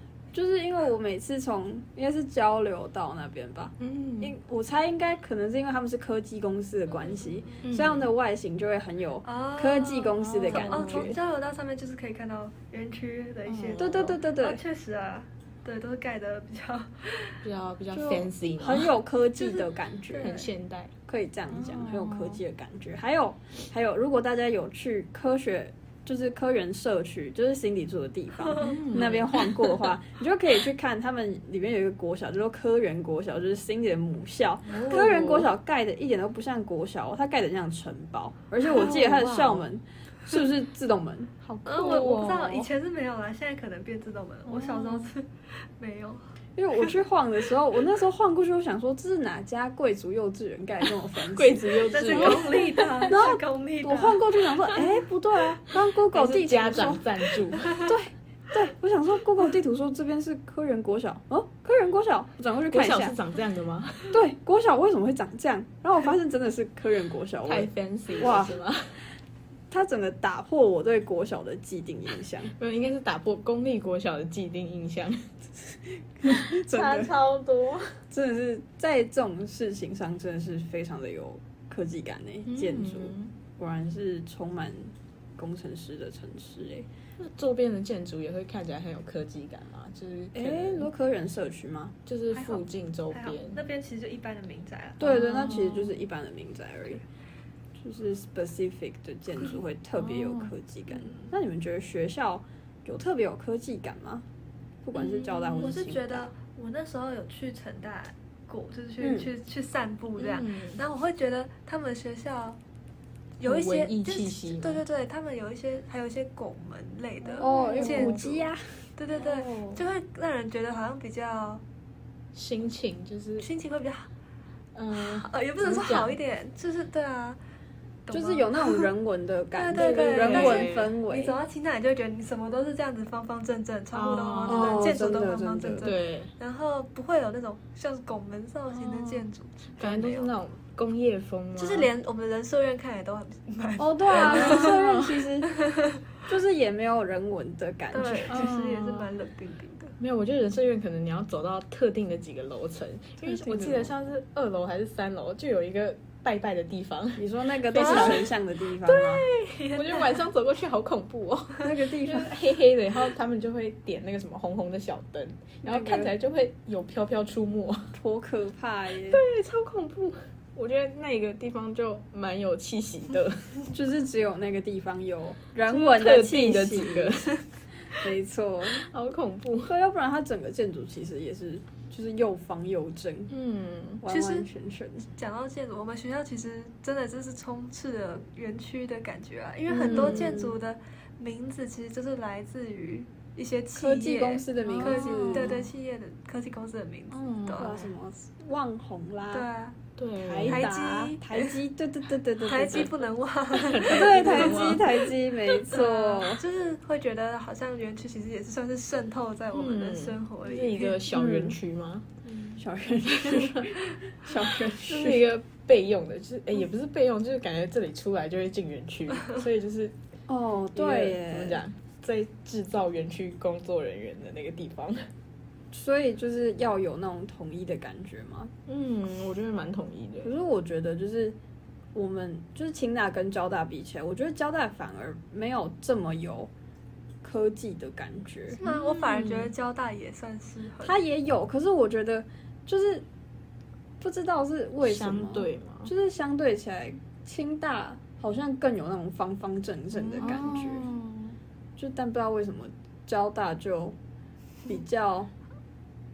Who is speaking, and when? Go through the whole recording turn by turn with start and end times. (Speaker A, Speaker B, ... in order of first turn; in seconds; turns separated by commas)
Speaker A: 0.3-11.2, Speaker B: 3.8-4.3, Speaker B: 7.6-8.1, Speaker C: 9.2-17.4, Speaker B: 10.4-11.2, Speaker B: 13.4-14.2, Speaker A: 13.8-14.6, Speaker B: 17.4-18.9, Speaker A: 17.9-20.5, Speaker C: 19.4-20.4, Speaker B: 20.2-20.9, Speaker A: 21.1-41.9, Speaker B: 21.5-22.4, Speaker C: 28.4-28.8, Speaker B: 28.6-29.8, Speaker B: 34.6-35.5, Speaker B: 38.6-39.6, Speaker B: 41.4-42.7, Speaker C: 41.6-46.2, Speaker A: 46.5-57.0, Speaker B: 51.3-53.2, Speaker C: 51.9-54.9, Speaker B: 56.1-57.7, Speaker A: 57.7-63.1, Speaker B: 62.7-64.2, Speaker A: 64.1-68.6, Speaker B: 67.5-69.0, Speaker A: 69.7-72.5, Speaker B: 72.6-75.2, Speaker A: 76.2-77.1, Speaker B: 76.3-78.0, Speaker A: 78.1-86.9, Speaker B: 82.5-83.3, Speaker B: 87.2-90.9, Speaker A: 90.3-91.9, Speaker B: 92.0-93.6, Speaker C: 92.3-95.0, Speaker A: 95.0-97.0, Speaker B: 95.0-96.0, Speaker A: 97.8-104.2, Speaker B: 100.0-100.5, Speaker A: 104.8-106.3, Speaker B: 104.9-105.8, Speaker C: 105.6-112.6, Speaker A: 109.0-109.3, Speaker B: 110.2-110.8, Speaker C: 113.4-121.6, Speaker B: 113.4-114.8, Speaker B: 117.3-118.4, Speaker A: 117.3-118.8, Speaker B: 119.2-119.8, Speaker B: 122.3-123.5, Speaker C: 123.4-124.1, Speaker B: 124.7-126.1, Speaker C: 124.9-127.4, Speaker C: 128.1-128.9, Speaker A: 128.1-131.4, Speaker C: 129.5-140.3, Speaker B: 129.7-130.9, Speaker B: 133.9-134.9, Speaker A: 134.5-135.9, Speaker B: 135.8-136.3, Speaker B: 138.7-139.3, Speaker B: 139.8-141.9, Speaker C: 141.6-144.7, Speaker A: 143.8-145.5, Speaker B: 144.1-145.2, Speaker C: 145.5-145.9, Speaker A: 146.2-148.3, Speaker C: 147.9-149.9, Speaker B: 148.3-149.1, Speaker B: 150.0-158.3, Speaker A: 153.2-153.9, Speaker A: 157.2-159.2, Speaker C: 157.8-158.2, Speaker B: 158.8-167.9, Speaker C: 159.6-160.2, Speaker A: 161.6-162.3, Speaker A: 165.6-166.1, Speaker A: 167.9-169.2, Speaker B: 169.1-173.5, Speaker A: 173.7-177.3, Speaker B: 175.6-177.4, Speaker A: 177.9-178.8, Speaker B: 178.7-179.7, Speaker A: 179.7-183.3, Speaker B: 183.3-184.0, Speaker A: 184.0-185.1, Speaker C: 184.1-184.5, Speaker C: 185.2-197.7, Speaker B: 189.7-190.5, Speaker A: 189.8-190.5, Speaker A: 193.7-195.6, Speaker B: 194.6-195.7, Speaker B: 197.1-197.9, Speaker A: 197.6-199.5, Speaker C: 199.3-199.8, Speaker B: 200.0-201.1, Speaker A: 200.2-202.9, Speaker C: 200.4-201.6, Speaker C: 202.4-204.9, Speaker B: 203.5-205.1, Speaker A: 203.9-206.4, Speaker C: 205.6-211.1, Speaker B: 209.5-212.5, Speaker A: 211.1-211.6, Speaker A: 212.6-215.2, Speaker B: 213.1-213.6, Speaker B: 214.8-220.0, Speaker A: 220.3-221.6, Speaker B: 220.7-225.0, Speaker A: 225.7-228.5, Speaker B: 228.7-230.3, Speaker A: 230.2-231.4, Speaker A: 231.9-236.5, Speaker A: 237.2-238.6, Speaker C: 238.5-241.0, Speaker B: 238.6-239.5, Speaker A: 240.8-243.0, Speaker A: 244.0-250.9, Speaker B: 244.8-245.9, Speaker B: 249.9-251.3, Speaker A: 251.8-253.9, Speaker A: 254.7-255.3